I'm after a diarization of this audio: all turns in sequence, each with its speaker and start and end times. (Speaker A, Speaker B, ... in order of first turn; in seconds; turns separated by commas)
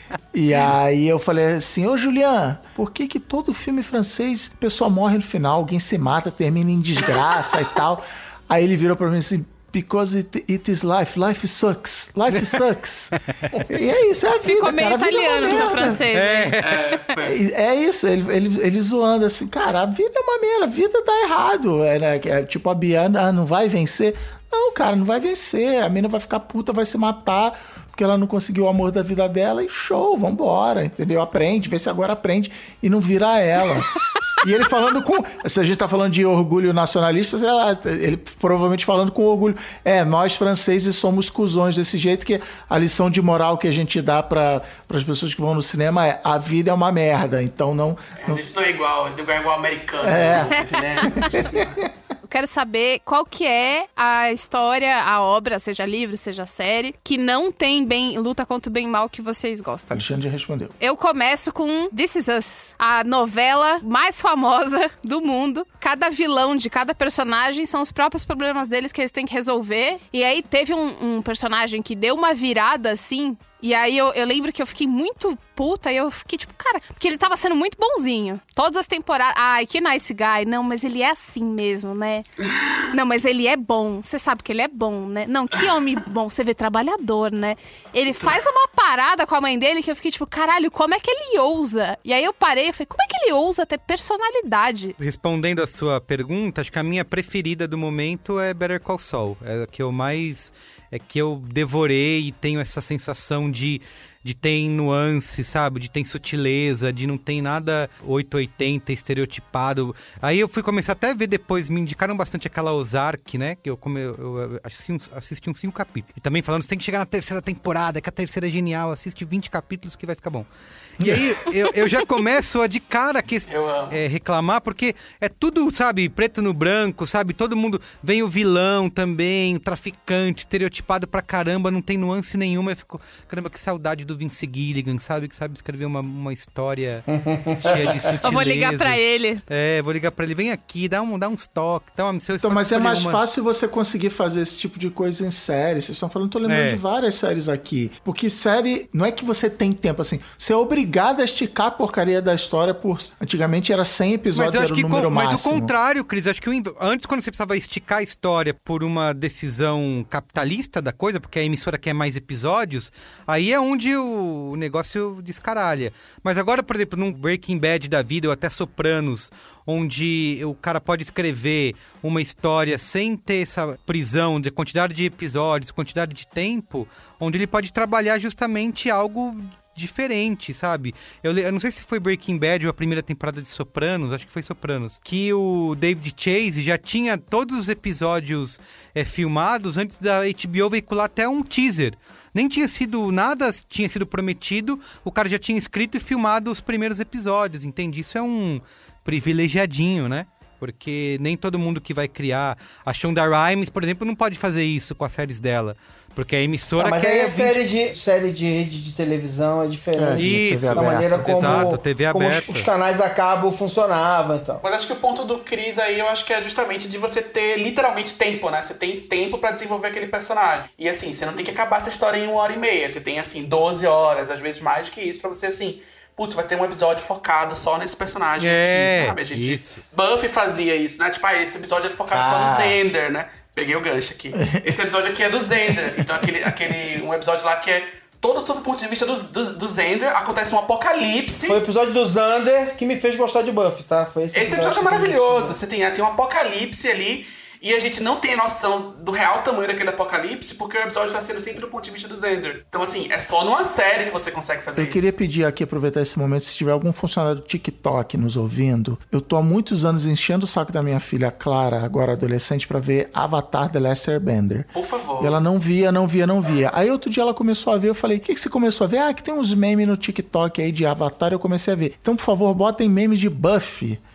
Speaker A: 0.3-16.0, Speaker B: 14.4-17.0, Speaker C: 15.4-16.8, Speaker D: 16.6-17.4, Speaker A: 17.2-48.4, Speaker D: 48.2-51.8, Speaker A: 50.0-50.5, Speaker B: 50.5-51.4, Speaker A: 51.0-51.9, Speaker B: 52.2-60.0, Speaker A: 59.9-60.7, Speaker B: 60.8-82.2, Speaker B: 82.8-95.0, Speaker C: 95.0-137.0, Speaker D: 123.5-123.9, Speaker E: 137.1-137.9, Speaker C: 137.6-143.2, Speaker B: 138.2-139.4, Speaker A: 142.4-155.7, Speaker C: 146.4-146.8, Speaker C: 154.3-207.6, Speaker E: 206.8-214.6, Speaker A: 210.0-211.7, Speaker C: 210.2-212.7, Speaker D: 214.6-241.6, Speaker C: 228.4-229.8, Speaker E: 232.1-232.8, Speaker E: 241.5-245.6, Speaker D: 244.3-255.1, Speaker A: 254.8-274.0, Speaker D: 264.7-265.4